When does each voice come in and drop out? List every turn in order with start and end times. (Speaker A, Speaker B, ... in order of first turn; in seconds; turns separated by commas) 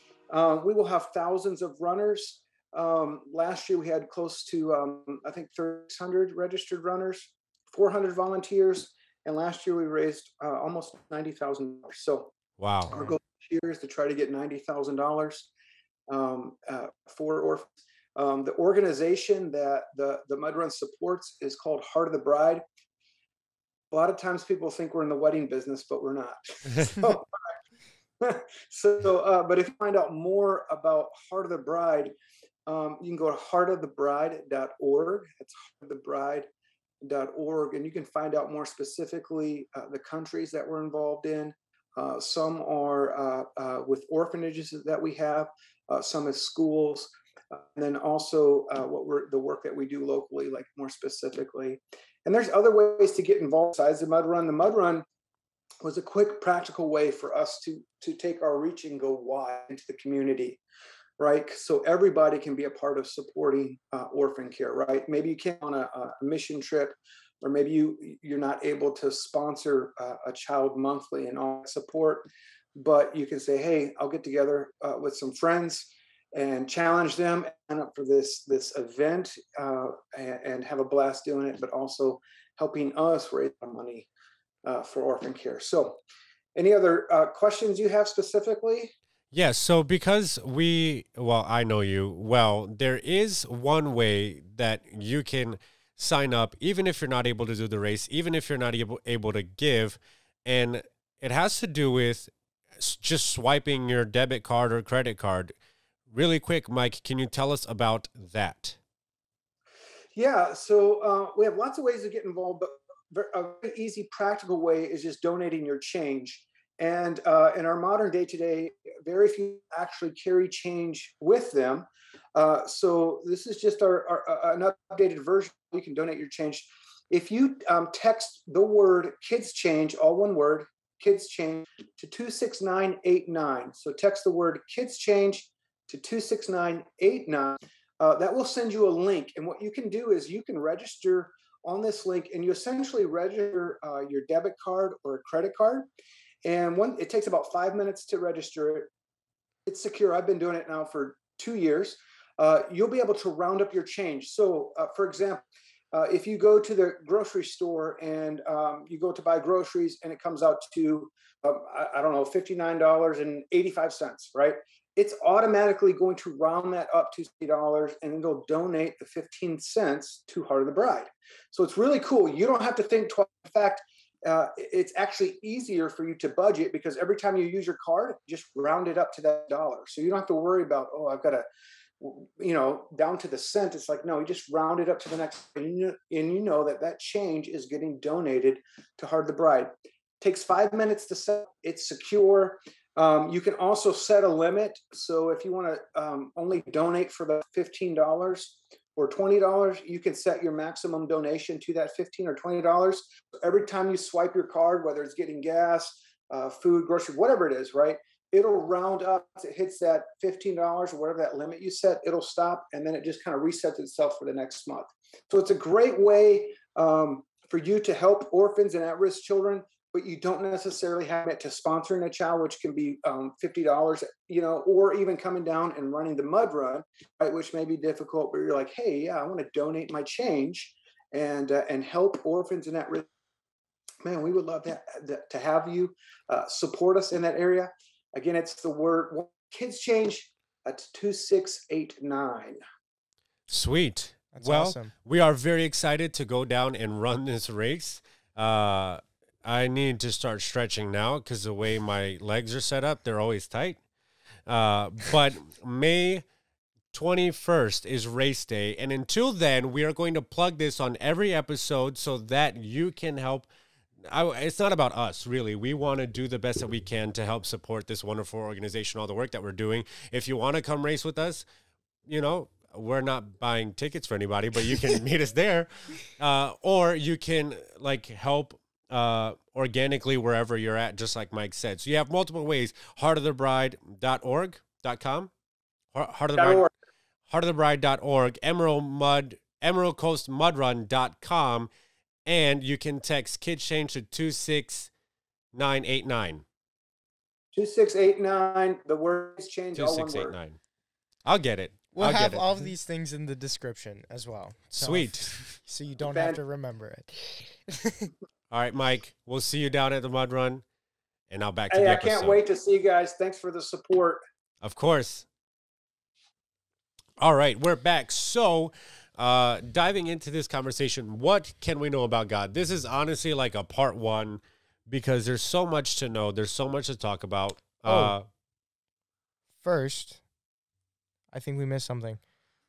Speaker A: 0.3-12.3, Speaker B: 12.6-13.0, Speaker A: 12.9-15.5, Speaker A: 16.1-22.6, Speaker A: 23.9-27.3, Speaker A: 28.2-32.1, Speaker A: 32.6-36.5, Speaker A: 37.0-55.0, Speaker A: 55.8-60.6, Speaker A: 61.2-84.1, Speaker A: 84.6-86.0, Speaker A: 86.5-88.9, Speaker B: 89.3-105.6, Speaker B: 106.1-108.8, Speaker A: 110.1-145.9, Speaker A: 146.4-148.9, Speaker A: 149.7-181.4, Speaker A: 182.0-233.1, Speaker A: 234.0-242.6, Speaker B: 243.5-253.8, Speaker C: 244.3-244.9, Speaker B: 254.5-256.2, Speaker B: 256.9-263.5, Speaker B: 264.0-271.4, Speaker B: 272.1-285.3, Speaker B: 285.9-286.7, Speaker A: 286.4-286.7, Speaker B: 287.3-291.7, Speaker B: 292.3-294.9, Speaker B: 295.5-296.4, Speaker A: 297.5-300.4, Speaker B: 299.7-300.6, Speaker B: 301.3-302.7, Speaker C: 301.9-308.1, Speaker B: 304.7-305.4, Speaker A: 306.1-306.4, Speaker B: 308.5-310.6, Speaker B: 311.3-312.4, Speaker A: 311.7-314.2, Speaker B: 314.6-315.3, Speaker B: 317.2-328.3, Speaker C: 327.9-328.1, Speaker C: 329.6-330.2, Speaker C: 331.3-332.2